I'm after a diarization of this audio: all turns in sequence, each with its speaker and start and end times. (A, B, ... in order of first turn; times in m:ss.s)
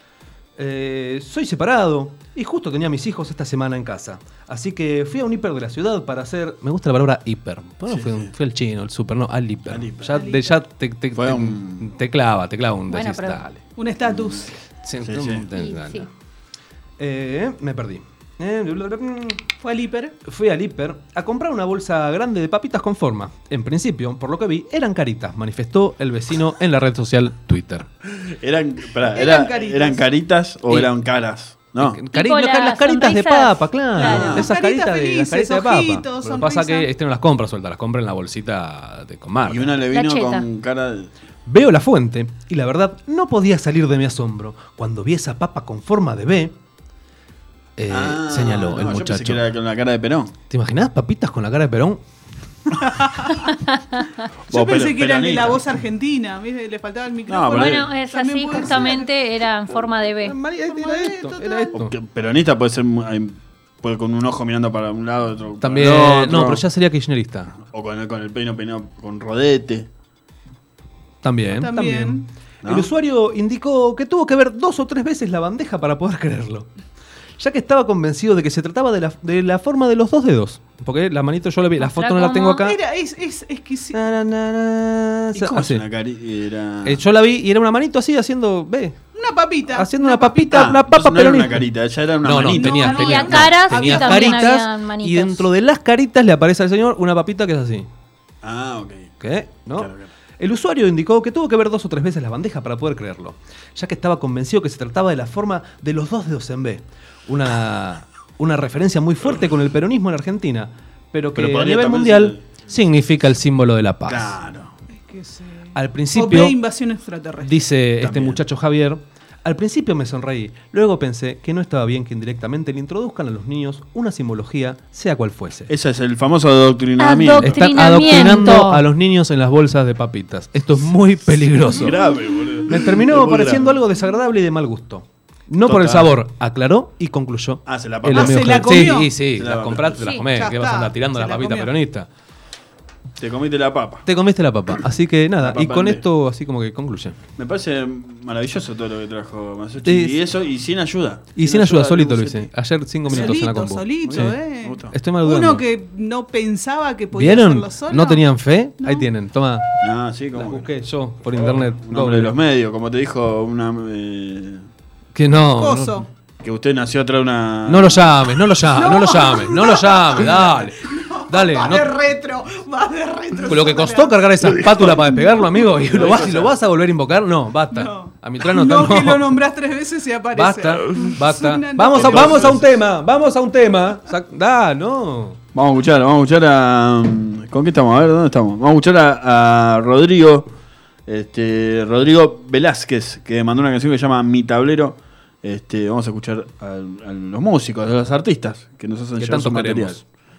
0:00.6-0:13.6 A
0:07.9-0:08.3 B
0:09.7-0:10.3 B
0:10.1-0:10.6 C
0:11.2-0:11.9 B
0:12.9-0:13.4 D
0:13.8-0:14.6 C
0:14.0-0:15.5 B
0:14.8-0:16.1 A
0:15.5-0:16.1 D
0:17.0-0:19.5 A
0:19.6-0:20.2 C
0:20.2-0:27.9 A
0:28.1-0:32.0 B
0:29.1-0:30.1 C
0:31.8-0:39.8 A
0:32.1-0:34.3 D
0:34.0-0:36.9 C
0:34.0-0:34.5 B
0:39.4-0:41.1 B
0:39.9-0:40.5 D
0:41.5-0:46.6 A
0:47.8-0:49.5 A
0:47.9-0:50.3 B
0:50.5-0:52.0 A
0:53.0-0:53.4 C
0:54.5-0:55.6 B
0:54.5-0:59.2 C
0:57.3-0:57.9 B
0:57.5-1:00.4 D
1:00.2-1:01.9 A
1:00.7-1:01.7 C
1:01.7-1:06.6 B
1:05.6-1:07.5 A
1:07.6-1:09.9 B
1:11.2-1:16.7 A
1:11.5-1:12.3 C
1:12.6-1:12.9 B
1:17.4-1:22.8 A
1:21.8-1:22.6 D
1:22.6-1:24.0 C
1:23.9-1:25.8 A
1:25.3-1:27.0 B
1:26.8-1:29.0 A
1:29.2-1:30.7 C
1:29.7-1:31.7 A
1:30.5-1:33.5 B
1:32.2-1:37.9 A
1:32.6-1:34.5 C
1:32.9-1:35.5 D
1:38.4-1:39.1 B
1:39.2-1:54.4 A
1:39.7-1:40.1 B
1:51.4-1:52.6 B
1:54.1-1:54.7 B
1:54.9-1:57.6 C
1:55.8-1:56.6 A
1:57.4-2:05.7 A
1:58.0-1:58.4 B
2:05.7-2:07.6 B
2:07.0-2:08.8 D
2:07.4-2:12.0 A
2:11.6-2:13.8 B
2:12.7-2:22.1 A
2:15.6-2:16.2 B
2:17.7-2:20.2 B
2:18.1-2:19.1 C
2:20.0-2:20.3 D
2:20.3-2:21.7 C
2:23.2-2:24.1 B
2:24.0-2:27.2 A
2:25.4-2:26.0 B
2:27.4-2:32.5 B
2:29.8-2:30.2 A
2:31.4-2:34.4 A
2:33.1-2:38.2 C
2:33.1-2:33.4 B
2:34.0-2:35.0 B
2:34.9-2:35.6 A
2:37.1-2:39.7 A
2:38.8-2:39.1 C
2:39.8-2:40.7 B
2:40.3-2:42.4 A
2:41.3-2:44.7 B
2:45.1-2:46.0 A
2:45.6-2:46.1 C
2:46.4-2:48.1 B
2:47.6-2:51.9 A
2:48.7-2:54.3 C
2:53.5-2:59.3 A
2:54.5-2:55.0 B
2:55.8-2:56.5 B
2:57.7-3:02.5 C
3:00.3-3:05.4 A
3:01.9-3:02.7 B
3:05.5-3:10.5 B
3:11.1-3:20.0 B
3:19.2-3:20.0 A